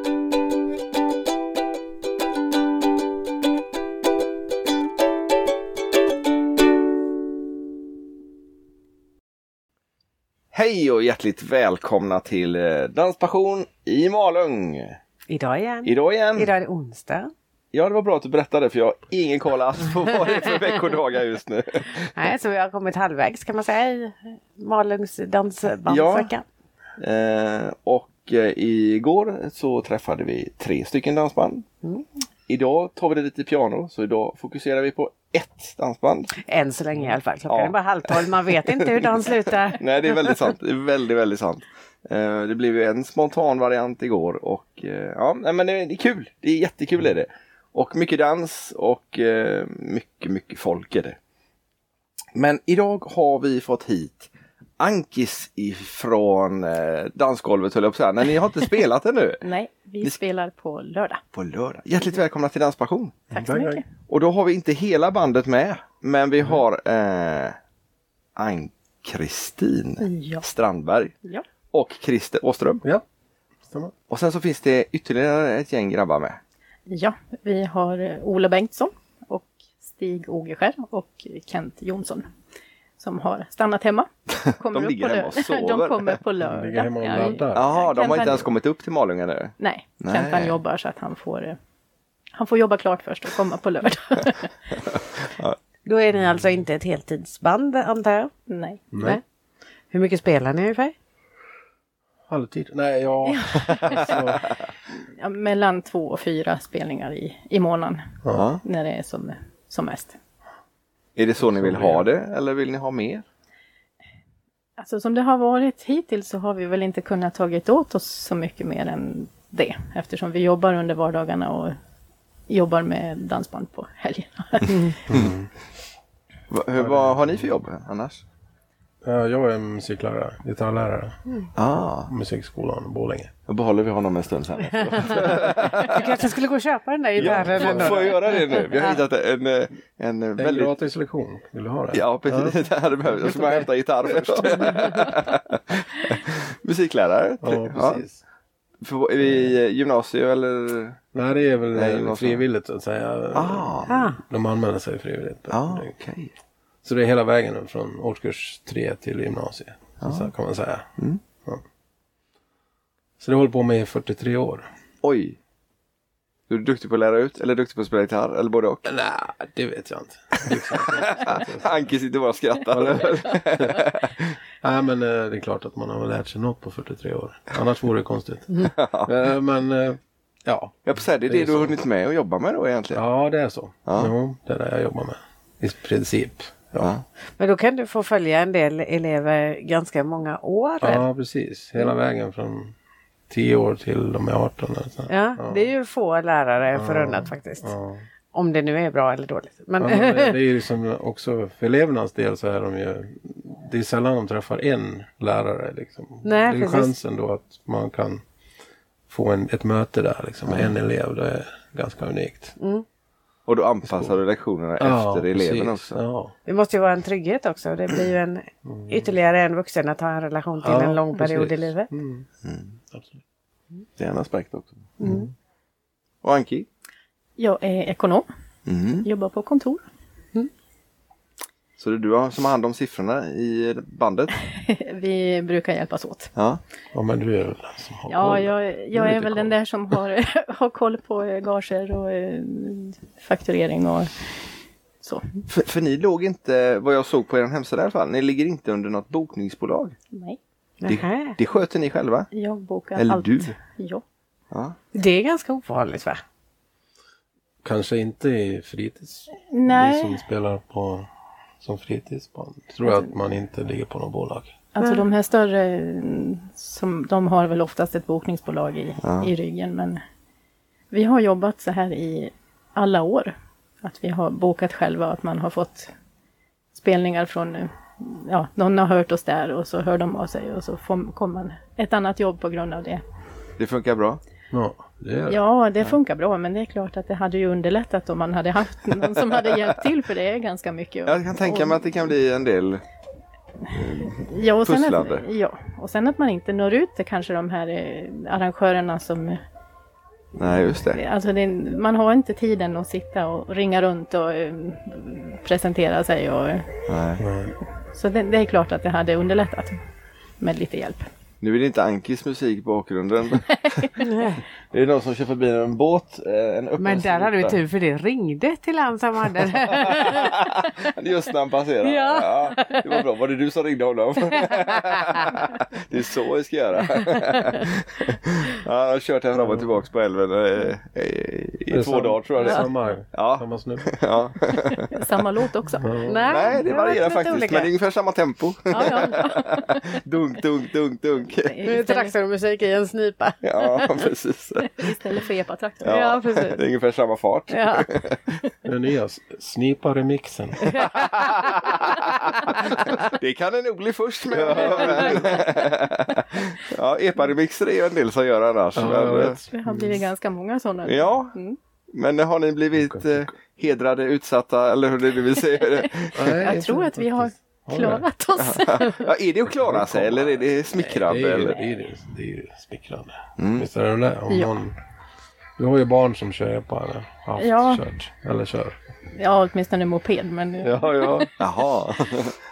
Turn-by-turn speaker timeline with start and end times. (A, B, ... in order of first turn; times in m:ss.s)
0:10.5-0:15.0 A
0:15.3-0:17.3 B
0:15.8-0:16.5 A
0:17.7-0:22.1 A
0:22.0-0:26.4 B
0:25.9-0:26.3 A
0:27.0-0:31.7 A
0:32.5-0:36.4 A
0:36.4-0:40.4 B
0:37.5-0:51.2 A
0:52.4-0:59.4 A
0:59.4-1:01.2 C
1:01.3-1:03.2 A
1:03.3-1:03.9 C
1:03.3-1:03.8 D
1:04.1-1:07.6 A
1:08.4-1:11.2 A
1:10.0-1:10.4 C
1:11.7-1:12.8 A
1:13.6-1:13.9 D
1:14.1-1:16.4 A
1:16.9-1:22.3 C
1:23.0-1:28.5 C
1:24.6-1:26.2 A
1:26.4-1:28.5 D
1:27.5-1:30.6 A
1:29.6-1:31.6 C
1:32.4-1:34.5 C
1:34.9-1:35.6 A
1:35.8-1:38.3 B
1:38.5-1:38.9 C
1:38.9-1:39.2 D
1:39.9-1:40.9 B
1:42.3-1:44.5 D
1:43.3-1:44.2 C
1:43.8-1:44.1 A
1:44.9-1:50.2 C
1:48.3-1:48.6 A
1:51.2-1:53.2 A
1:51.4-1:52.1 D
1:54.8-2:01.8 C
2:02.5-2:05.0 C
2:05.1-2:05.5 D
2:06.5-2:08.2 A
2:06.8-2:07.5 D
2:09.0-2:11.2 D
2:11.6-2:12.1 A
2:12.1-2:13.3 D
2:13.5-2:16.2 A
2:15.1-2:19.0 B
2:17.2-2:18.1 D
2:17.2-2:20.7 A
2:20.4-2:22.6 D
2:21.9-2:28.0 A
2:23.3-2:23.7 D
2:24.6-2:24.9 B
2:27.4-2:28.2 D
2:28.8-2:31.0 A
2:29.2-2:29.6 D
2:31.1-2:35.9 D
2:31.8-2:32.4 A
2:33.4-2:34.0 A
2:33.9-2:34.2 B
2:35.5-2:36.3 A
2:36.8-2:40.9 D
2:40.0-2:40.3 A
2:43.2-2:44.7 D
2:45.0-2:45.4 A
2:46.5-2:48.9 A
2:48.8-2:51.9 D
2:50.7-2:54.4 A
2:52.7-2:53.8 D
2:54.6-3:01.8 D
2:58.6-2:59.1 A
3:00.9-3:03.0 A
3:02.9-3:06.9 D
3:03.9-3:04.1 A
3:06.8-3:07.0 A
3:07.4-3:11.0 B
3:10.8-3:12.7 D
3:13.3-3:15.7 D
3:15.1-3:17.7 B
3:16.7-3:18.1 D
3:18.3-3:20.4 B
3:19.8-3:28.2 D
3:26.2-3:26.9 B
3:29.1-3:32.6 D
3:32.6-3:32.8 B
3:33.5-3:36.0 A
3:33.8-3:34.2 D
3:34.8-3:36.3 D
3:36.5-3:41.9 B
3:38.6-3:39.1 D
3:40.6-3:42.3 D
3:42.4-3:42.8 A
3:42.9-3:43.2 D
3:44.0-3:44.9 A
3:45.0-3:45.3 D
3:46.2-3:46.7 A
3:47.4-3:48.3 C
3:48.7-3:49.1 A
3:49.0-3:49.8 C
3:51.8-3:54.3 A
3:54.5-3:56.3 C
3:56.9-3:59.5 D
3:58.1-4:04.1 C
4:05.0-4:05.4 C
4:05.5-4:10.0 A
4:10.1-4:10.4 C
4:10.8-4:11.4 B
4:10.9-4:12.3 A
4:12.3-4:14.0 C
4:13.0-4:13.6 A
4:14.9-4:16.2 B
4:17.6-4:21.1 D
4:19.5-4:20.2 C
4:21.6-4:24.6 D
4:24.8-4:30.0 C
4:29.0-4:29.3 A
4:30.9-4:35.9 C
4:36.7-4:43.0 C
4:43.6-4:44.2 A
4:44.5-4:45.4 D
4:45.3-4:51.9 C
4:51.1-4:52.8 A
4:53.7-4:55.2 A
4:54.1-4:59.4 C
5:00.4-5:01.0 A
5:00.9-5:06.9 C
5:06.9-5:07.3 A
5:07.2-5:07.6 D
5:07.9-5:09.8 C
5:10.4-5:11.1 C
5:11.4-5:17.6 A
5:13.5-5:13.9 C
5:14.0-5:14.4 B
5:16.8-5:20.7 B
5:19.7-5:34.9 A
5:21.8-5:23.0 B
5:24.3-5:25.4 B
5:27.0-5:27.6 B
5:29.4-5:29.7 D
5:31.7-5:34.0 D
5:34.9-5:36.0 C
5:35.8-5:36.2 D
5:36.1-5:37.7 B
5:36.3-5:41.6 A
5:38.7-5:39.3 B
5:38.8-5:40.0 C
5:41.3-5:42.1 C
5:41.6-5:44.1 B
5:43.4-5:45.0 A
5:44.7-5:46.0 C
5:45.8-5:48.4 A
5:45.9-5:46.6 B
5:47.5-5:47.9 B
5:48.6-5:50.8 D
5:50.7-5:51.6 B
5:51.5-5:59.4 A
5:58.8-6:00.0 D
5:59.4-6:01.6 C
6:00.9-6:01.3 A
6:01.9-6:06.2 A
6:02.8-6:03.3 D
6:06.1-6:09.2 C
6:06.1-6:08.1 D
6:08.4-6:11.6 A
6:09.5-6:14.8 D
6:13.4-6:13.7 A
6:15.6-6:18.8 D
6:17.4-6:17.8 C
6:19.2-6:21.4 C
6:20.6-6:21.3 D
6:21.4-6:22.4 A